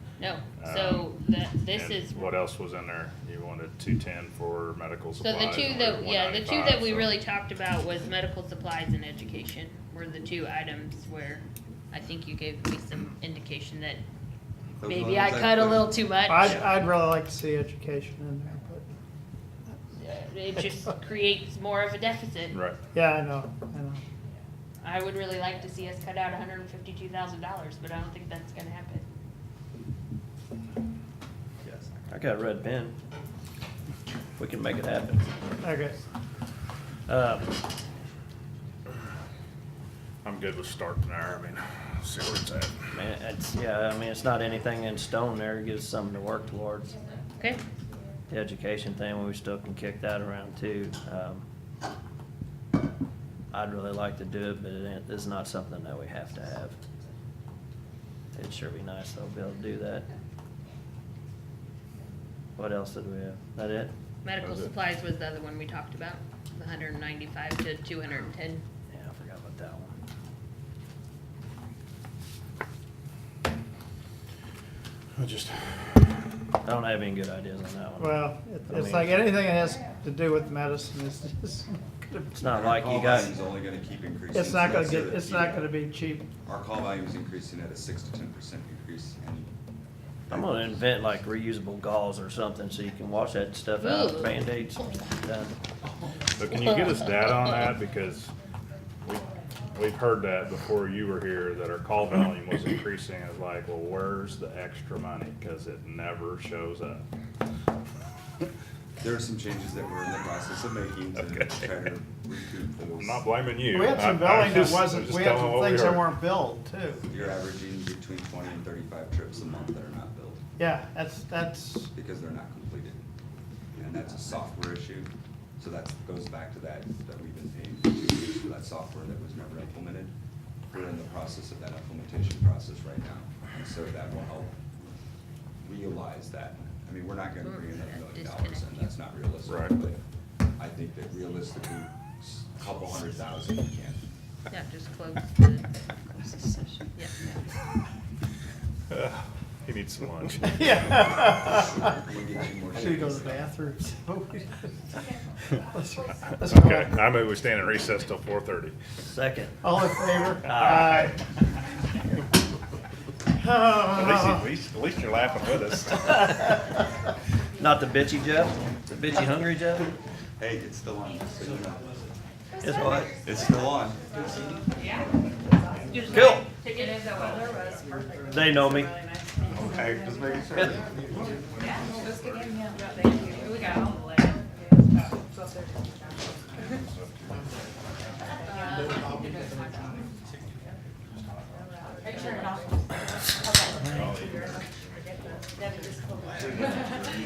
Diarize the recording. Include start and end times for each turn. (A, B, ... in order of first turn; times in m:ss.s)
0:00.2-0:02.3 A
0:00.6-0:01.1 B
0:01.7-0:07.2 B
0:05.2-0:14.0 A
0:14.8-0:16.6 A
0:15.1-0:15.9 C
0:16.3-0:18.8 D
0:20.0-0:22.6 A
0:22.5-0:22.8 B
0:22.9-0:24.0 D
0:24.8-0:29.0 A
0:32.1-0:33.0 E
0:34.4-0:35.3 E
0:35.6-0:36.0 D
0:37.1-0:37.6 E
0:40.2-0:42.8 B
0:42.9-0:47.0 E
0:47.4-0:47.6 A
0:48.3-0:51.4 E
0:53.5-0:56.8 E
0:58.3-1:00.0 E
1:02.6-1:03.9 E
1:04.2-1:08.6 A
1:04.4-1:04.7 B
1:08.9-1:09.9 E
1:15.2-1:15.9 B
1:16.6-1:19.2 E
1:18.0-1:22.3 D
1:22.3-1:23.6 E
1:22.5-1:25.7 C
1:24.3-1:26.3 D
1:26.5-1:29.5 C
1:30.3-1:35.6 E
1:30.3-1:30.7 C
1:33.8-1:34.3 A
1:36.4-1:38.3 B
1:36.6-1:37.5 A
1:39.0-1:47.0 B
1:49.0-1:53.1 C
1:51.2-1:51.7 B
1:53.0-1:56.2 B
1:53.7-1:57.0 D
1:57.1-2:00.4 C
2:00.6-2:01.9 D
2:01.9-2:03.0 C
2:03.8-2:10.1 C
2:10.7-2:14.5 C
2:15.6-2:20.0 C
2:17.4-2:18.9 A
2:19.4-2:19.7 B
2:20.6-2:24.0 C
2:24.5-2:25.6 A
2:26.9-2:27.4 A
2:28.9-2:31.1 B
2:30.5-2:32.0 D
2:32.0-2:33.4 C
2:32.7-2:34.7 D
2:35.7-2:36.8 D
2:36.4-2:38.7 B
2:39.1-2:39.6 E
2:39.6-2:41.0 D
2:40.4-2:41.2 B
2:40.5-2:40.9 E
2:43.4-2:44.3 D
2:43.8-2:46.5 B
2:47.6-2:49.9 E
2:50.4-2:51.8 C
2:51.4-2:51.7 E
2:52.6-2:53.4 E
2:53.2-2:54.0 C
2:55.9-2:57.2 A
2:56.1-2:56.5 E
2:58.3-2:59.0 E
2:59.5-3:00.8 E
3:06.8-3:07.4 B
3:13.8-3:15.0 B